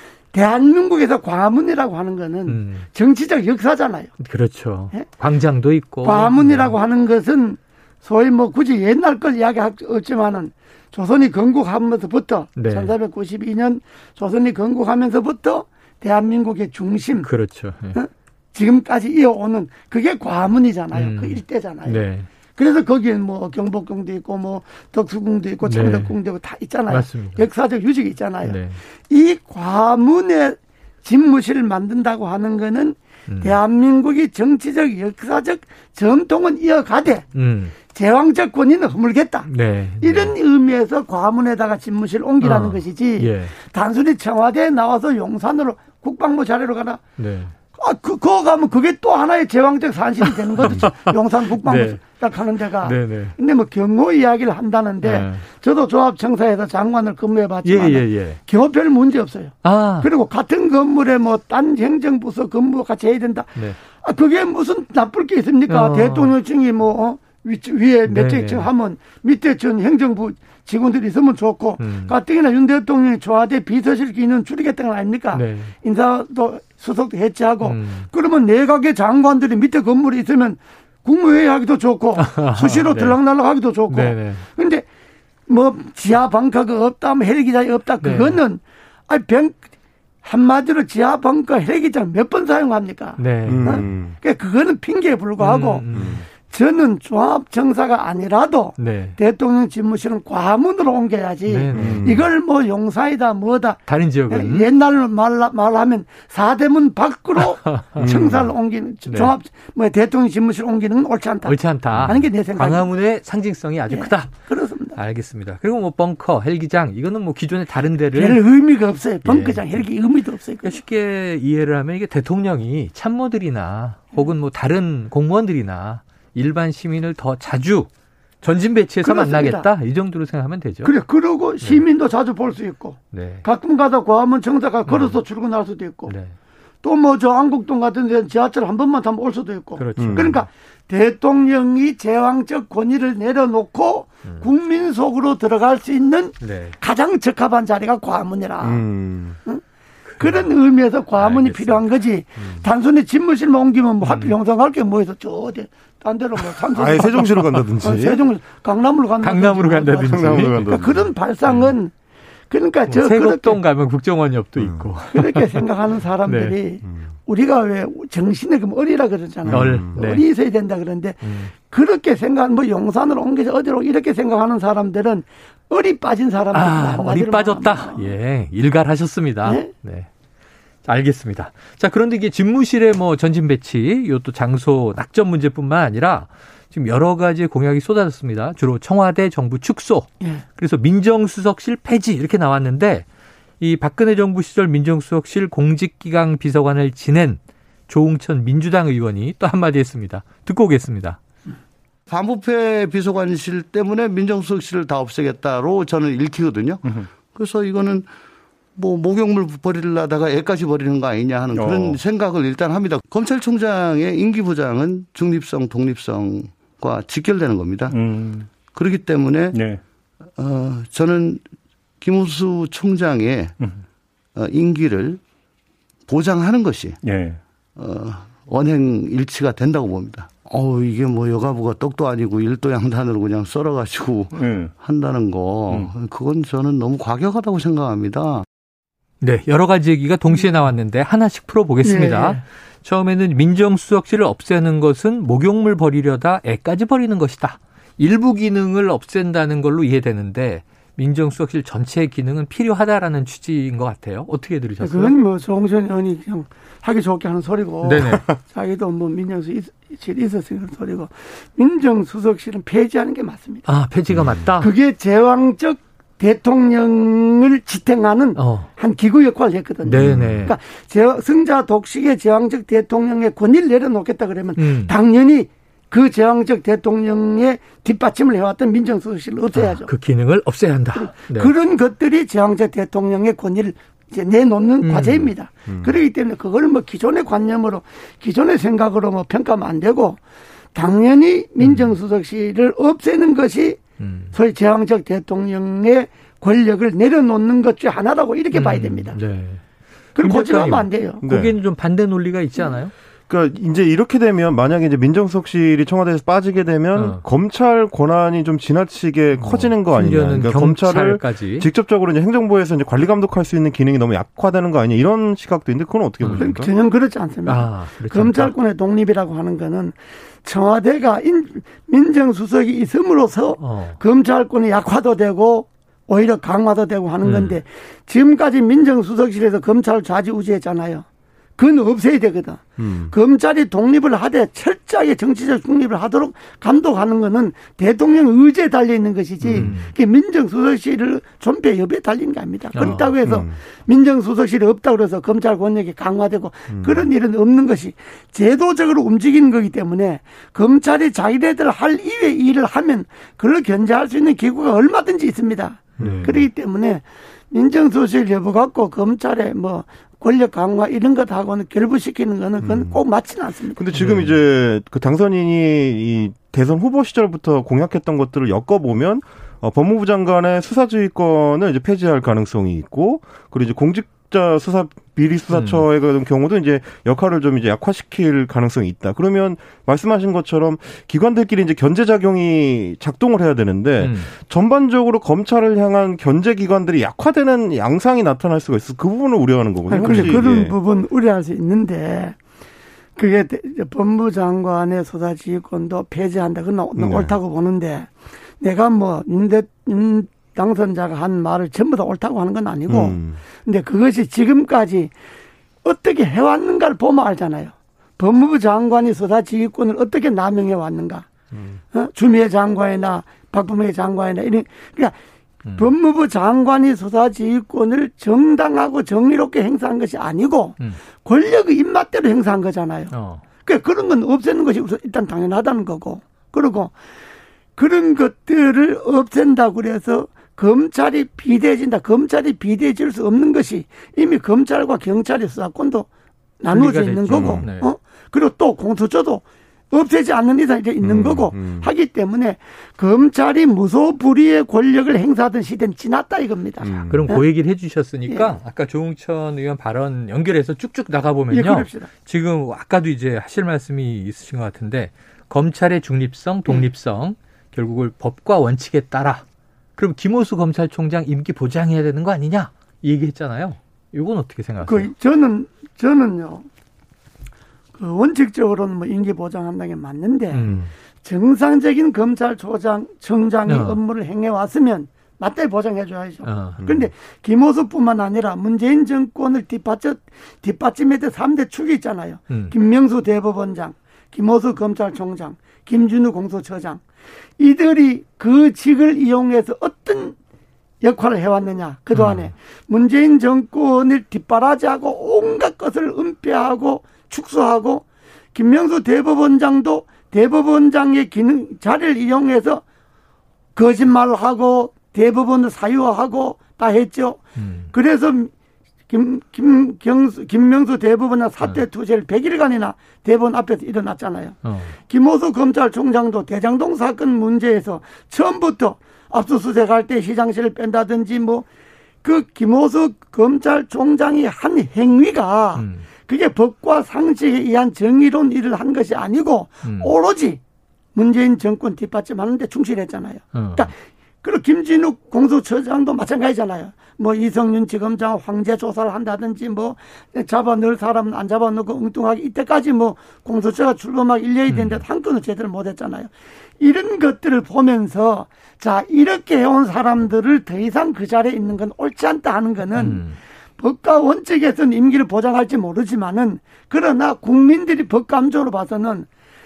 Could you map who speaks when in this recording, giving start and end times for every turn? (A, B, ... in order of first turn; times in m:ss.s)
0:00.3-0:04.1 A
0:02.5-0:02.9 B
0:04.2-0:06.8 B
0:06.0-0:17.3 A
0:12.6-0:12.9 B
0:17.2-0:18.0 B
0:17.9-0:22.0 A
0:20.9-0:22.3 B
0:22.6-0:37.3 A
0:25.6-0:26.1 B
0:26.9-0:27.5 B
0:28.4-0:28.8 B
0:33.3-0:33.6 B
0:37.3-0:37.8 B
0:37.9-0:39.5 A
0:39.4-0:40.4 B
0:40.0-0:47.0 A
0:42.4-0:43.6 B
0:47.2-0:47.5 B
0:47.8-1:24.8 A
0:50.2-0:51.1 B
0:51.6-0:52.0 B
0:52.8-0:53.4 B
0:55.0-0:55.4 B
0:57.6-0:58.4 B
0:59.6-1:00.1 B
1:05.7-1:06.4 B
1:08.1-1:08.7 B
1:11.8-1:12.2 B
1:15.3-1:15.7 B
1:17.6-1:18.1 B
1:22.2-1:23.2 B
1:23.9-1:24.4 B
1:25.5-1:29.6 A
1:28.0-1:28.4 B
1:30.2-1:52.9 A
1:33.2-1:33.9 B
1:33.4-1:34.2 C
1:35.4-1:36.3 B
1:35.9-1:36.2 C
1:38.8-1:39.2 B
1:41.5-1:42.2 B
1:41.7-1:42.3 C
1:43.9-1:44.7 B
1:47.4-1:48.1 B
1:48.0-1:48.5 C
1:49.1-1:49.3 B
1:51.4-1:54.4 B
1:51.9-1:52.3 C
1:53.9-1:55.0 A
1:55.0-1:58.4 B
1:58.1-2:00.8 A
1:59.2-1:59.8 B
2:00.6-2:07.9 B
2:08.4-2:10.9 B
2:09.0-2:09.7 A
2:10.8-2:16.1 A
2:13.1-2:13.4 B
2:14.9-2:15.2 B
2:16.1-2:16.3 B
2:16.8-2:28.8 A
2:19.8-2:20.5 B
2:20.0-2:20.4 C
2:26.4-2:26.8 B
2:28.6-2:29.4 C
2:30.1-2:30.5 B
2:30.2-2:37.3 A
2:31.2-2:31.9 B
2:34.0-2:34.4 B
2:36.7-2:38.2 C
2:37.8-2:41.9 A
2:39.2-2:40.7 B
2:40.1-2:41.1 C
2:41.4-2:41.7 B
2:42.5-2:43.6 A
2:42.9-2:45.6 B
2:44.6-2:44.9 C
2:45.1-2:58.1 A
2:46.2-2:46.6 B
2:46.9-2:47.1 C
2:49.5-2:50.0 C
2:49.5-2:50.2 B
2:51.2-2:51.5 B
2:56.5-3:00.1 B
2:59.4-2:59.7 A
3:00.8-3:13.1 B
3:13.6-3:21.2 B
3:22.1-3:28.1 D
3:26.8-3:27.1 E
3:28.8-3:38.0 D
3:31.5-3:32.0 E
3:37.9-3:38.5 E
3:38.5-3:39.6 D
3:39.5-3:39.8 E
3:40.4-3:41.4 D
3:42.0-3:43.6 D
3:44.4-3:45.2 D
3:46.1-3:47.0 D
3:47.0-3:47.4 E
3:47.8-3:58.4 D
3:54.3-3:54.7 E
3:59.2-4:15.2 B
4:01.8-4:02.4 A
4:14.8-4:23.7 A
4:17.8-4:18.2 B
4:23.7-4:24.7 B
4:24.1-4:24.4 C
4:24.6-4:39.9 A
4:28.4-4:28.7 B
4:29.9-4:30.5 B
4:29.9-4:30.5 C
4:34.6-4:34.9 B
4:39.5-4:41.5 B
4:41.0-4:50.2 A
4:44.8-4:45.3 B
4:45.7-4:46.0 C
4:50.8-4:53.8 A
4:51.6-4:51.9 B
4:54.0-4:54.4 B
4:54.3-4:59.2 A
4:58.5-4:59.6 B
5:00.2-5:01.2 A
5:00.2-5:02.9 B
5:01.2-5:01.6 C
5:03.3-5:16.7 C
5:07.0-5:07.2 B
5:09.4-5:11.7 B
5:16.2-5:16.5 B
5:16.4-5:31.0 A
5:17.4-5:18.6 B
5:23.6-5:24.0 B
5:27.2-5:27.6 B
5:31.6-6:03.8 A
5:32.8-5:33.2 C
5:39.4-5:39.7 C
5:39.5-5:39.9 B
5:42.7-5:43.2 B
5:42.9-5:43.6 C
5:46.7-5:47.1 C
5:56.0-5:56.4 B
5:56.0-5:56.5 C
6:02.6-6:03.0 C
6:03.8-6:30.8 C
6:03.9-6:04.4 B
6:15.5-6:15.9 B
6:24.0-6:24.3 B
6:29.9-6:32.4 A
6:30.0-6:30.5 B
6:33.2-6:45.1 A
6:37.0-6:37.4 C
6:42.9-6:43.4 C
6:45.8-6:51.3 A
6:51.5-6:51.8 C
6:51.9-6:55.2 A
6:55.6-6:55.9 B
6:55.8-7:03.1 A
7:03.1-7:03.4 B
7:03.6-7:06.9 A
7:07.8-7:16.1 A
7:16.6-7:27.4 A
7:16.7-7:17.9 B
7:17.3-7:17.6 C
7:21.0-7:21.9 C
7:26.8-7:27.2 C
7:27.1-7:39.4 B
7:31.5-7:32.1 A
7:40.0-7:45.1 B
7:44.9-7:46.7 A
7:48.0-7:50.7 A
7:50.5-7:50.9 B
7:51.2-8:07.0 A
7:53.7-7:54.0 B
7:56.4-7:56.8 B
7:56.8-7:57.1 C
8:07.6-8:10.4 A
8:11.0-8:22.8 A
8:12.1-8:12.5 B
8:23.8-8:28.5 A
8:27.6-8:27.9 B
8:29.1-8:41.7 A
8:34.6-8:35.0 B
8:42.2-8:50.6 A
8:45.8-8:46.1 B
8:49.8-8:50.1 B
8:51.2-9:13.2 A
8:53.5-8:53.9 B
9:04.7-9:05.0 B
9:13.0-9:13.4 B
9:13.8-9:19.3 A